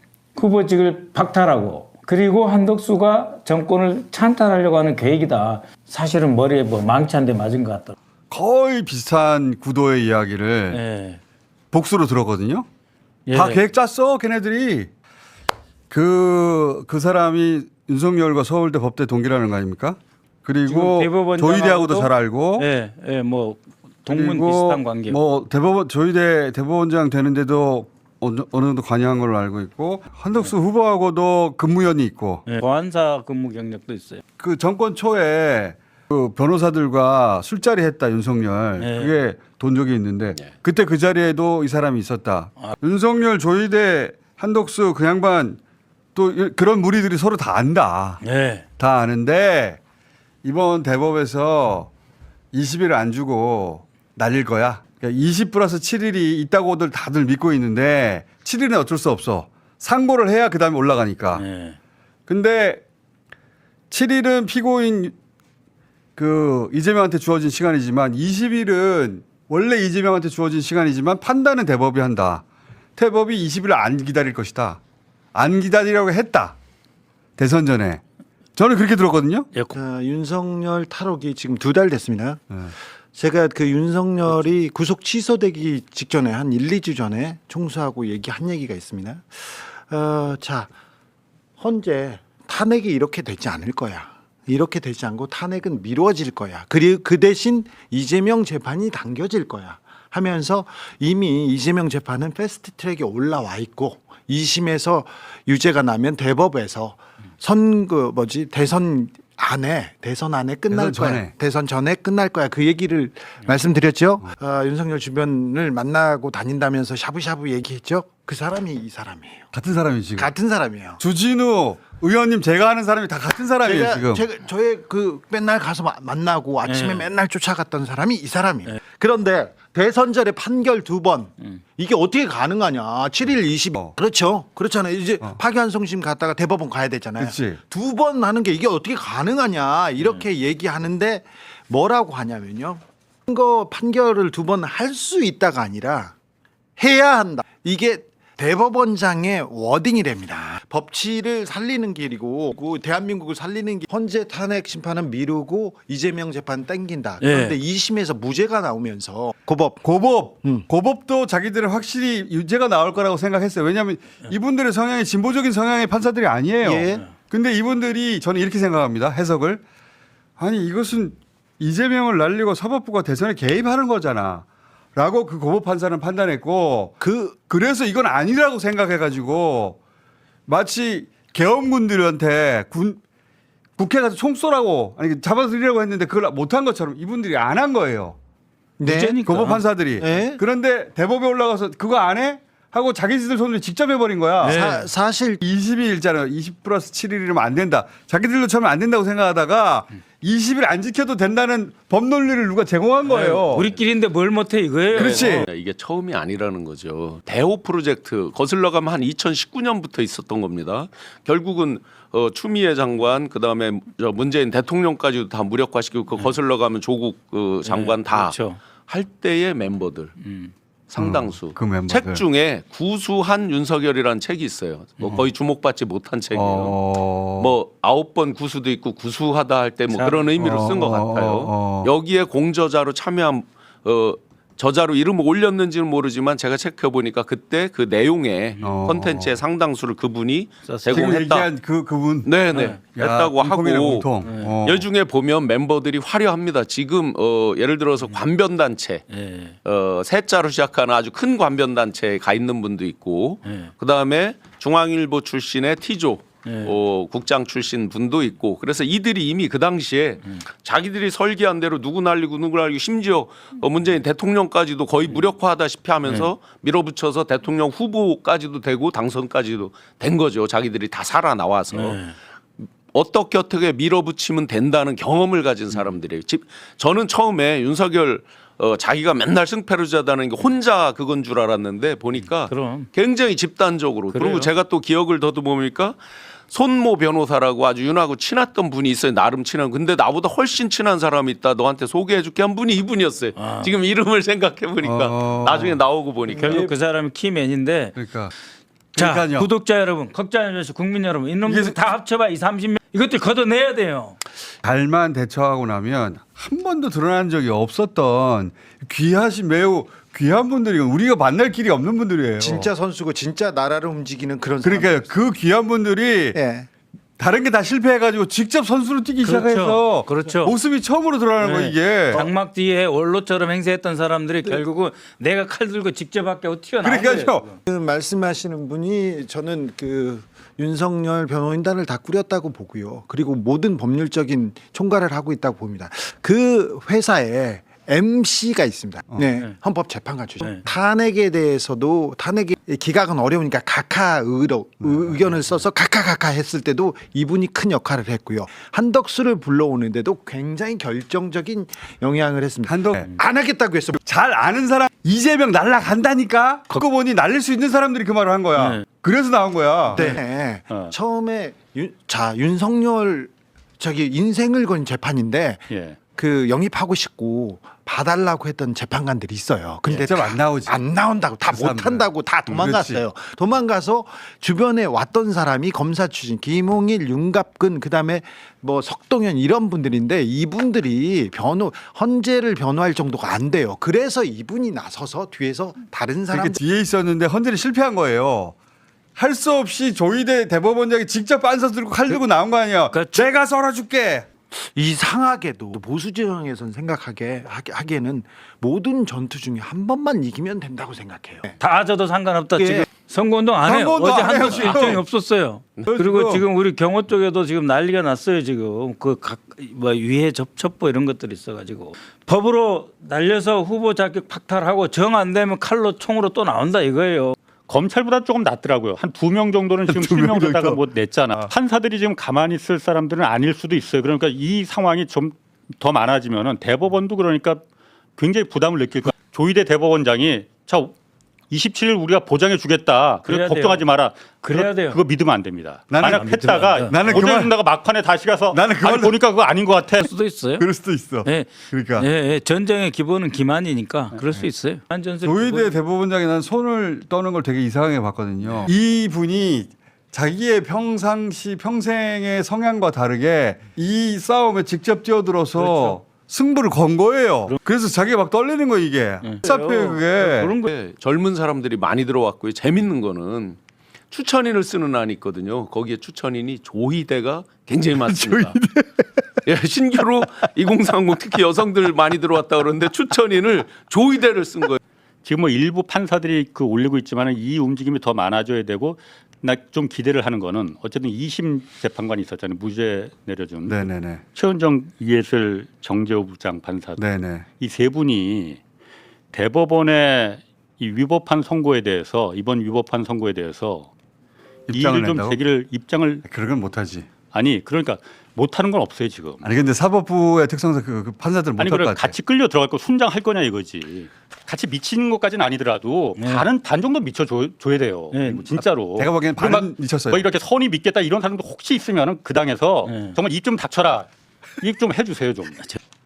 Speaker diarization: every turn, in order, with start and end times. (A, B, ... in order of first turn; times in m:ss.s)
0:00.3-0:08.0 A
0:08.3-0:10.8 B
0:10.7-0:11.2 A
0:11.7-0:12.7 B
0:13.3-0:13.6 A
0:13.3-0:14.9 B
0:15.9-0:22.7 B
0:20.7-0:25.2 A
0:24.1-0:32.4 B
0:32.4-0:34.2 A
0:34.4-0:45.6 B
0:38.8-0:39.1 A
0:46.1-0:48.2 B
0:48.2-0:48.6 A
0:48.8-0:49.8 B
0:50.4-0:51.9 B
0:52.5-1:01.4 B
1:01.4-1:01.8 A
1:02.3-1:02.8 B
1:03.9-1:05.1 B
1:06.2-1:12.4 B
1:13.0-1:14.8 B
1:15.3-1:16.6 B
1:17.4-1:18.0 B
1:18.6-1:19.5 B
1:19.7-1:22.5 C
1:23.1-1:30.7 C
1:31.6-1:59.5 C
1:50.7-1:51.3 B
1:59.5-2:00.3 B
2:00.2-2:01.0 C
2:01.0-2:04.2 B
2:03.6-2:26.1 C
2:06.6-2:07.1 A
2:17.2-2:17.6 B
2:26.8-2:39.8 C
2:37.2-2:37.6 A
2:39.8-2:49.6 B
2:46.6-2:47.0 C
2:50.4-2:54.4 B
2:55.0-2:59.8 B
2:57.0-2:57.4 C
3:00.5-3:03.0 B
3:03.8-3:08.2 B
3:08.8-3:09.2 C
3:08.8-3:09.6 A
3:09.2-3:14.6 B
3:10.0-3:10.4 C
3:14.4-3:14.9 A
3:14.4-3:15.4 C
3:15.4-3:23.8 B
3:23.1-3:25.5 A
3:24.9-3:40.2 D
3:24.9-3:25.5 B
3:37.6-3:38.6 A
3:40.2-3:40.5 A
3:40.9-3:46.8 D
3:41.0-3:42.2 B
3:46.3-3:47.6 B
3:47.4-4:01.5 D
3:49.9-3:50.3 A
3:50.4-3:51.9 B
3:58.6-3:59.4 B
4:00.6-4:01.1 A
4:00.9-4:04.9 B
4:02.2-4:04.1 D
4:02.5-4:02.8 A
4:04.2-4:04.5 A
4:04.6-4:09.1 D
4:09.1-4:09.5 A
4:09.6-4:32.0 D
4:13.4-4:13.7 A
4:16.4-4:16.7 A
4:31.7-4:32.1 A
4:32.9-4:56.7 D
4:42.3-4:42.9 A
4:44.1-4:44.5 A
4:53.4-4:53.7 A
4:54.8-4:55.8 B
4:56.3-4:58.0 A
4:57.9-4:58.3 B
4:58.9-4:59.5 B
4:59.0-5:04.2 A
5:01.5-5:01.8 B
5:04.6-5:12.7 B
5:12.4-5:15.3 C
5:14.6-5:16.4 B
5:16.3-5:16.7 C
5:17.2-5:22.3 B
5:19.2-5:20.5 A
5:21.4-5:27.5 A
5:26.8-5:27.5 B
5:27.6-5:54.0 C
5:44.9-5:45.2 B
5:52.6-5:53.1 B
5:54.0-6:00.2 B
5:59.9-6:26.6 C
6:00.7-6:00.9 E
6:05.7-6:06.0 E
6:09.9-6:10.8 B
6:11.4-6:13.0 B
6:12.5-6:12.7 E
6:26.3-6:28.5 B
6:29.2-6:34.3 B
6:32.9-6:33.2 A
6:34.5-6:41.6 C
6:41.6-6:57.4 A
6:42.6-6:42.8 C
6:43.6-6:45.0 B
6:45.8-6:46.4 B
6:57.7-7:07.6 E
6:59.8-7:01.5 B
7:08.2-7:10.9 E
7:11.5-7:20.1 E
7:13.2-7:13.9 A
7:14.4-7:15.0 A
7:15.9-7:17.6 B
7:16.0-7:17.2 A
7:18.5-7:19.2 B
7:20.0-7:20.6 A
7:20.6-7:22.1 B
7:21.2-7:25.8 A
7:25.2-7:40.6 B
7:35.6-7:35.9 A
7:39.2-7:40.7 A
7:40.7-7:43.6 D
7:44.1-7:48.6 D
7:48.0-7:49.1 B
7:49.4-7:54.8 D
7:55.2-8:07.0 E
8:03.7-8:04.2 B
8:07.0-8:07.4 B
8:07.6-8:08.6 E
8:09.3-8:13.9 E
8:14.7-8:15.4 B
8:14.7-8:16.2 E
8:16.2-8:17.1 B
8:17.3-8:19.4 E
8:19.4-8:22.2 B
8:21.6-8:34.1 E
8:26.2-8:26.5 A
8:28.1-8:28.5 A
8:29.0-8:30.3 B
8:32.8-8:33.2 A
8:34.6-8:35.8 E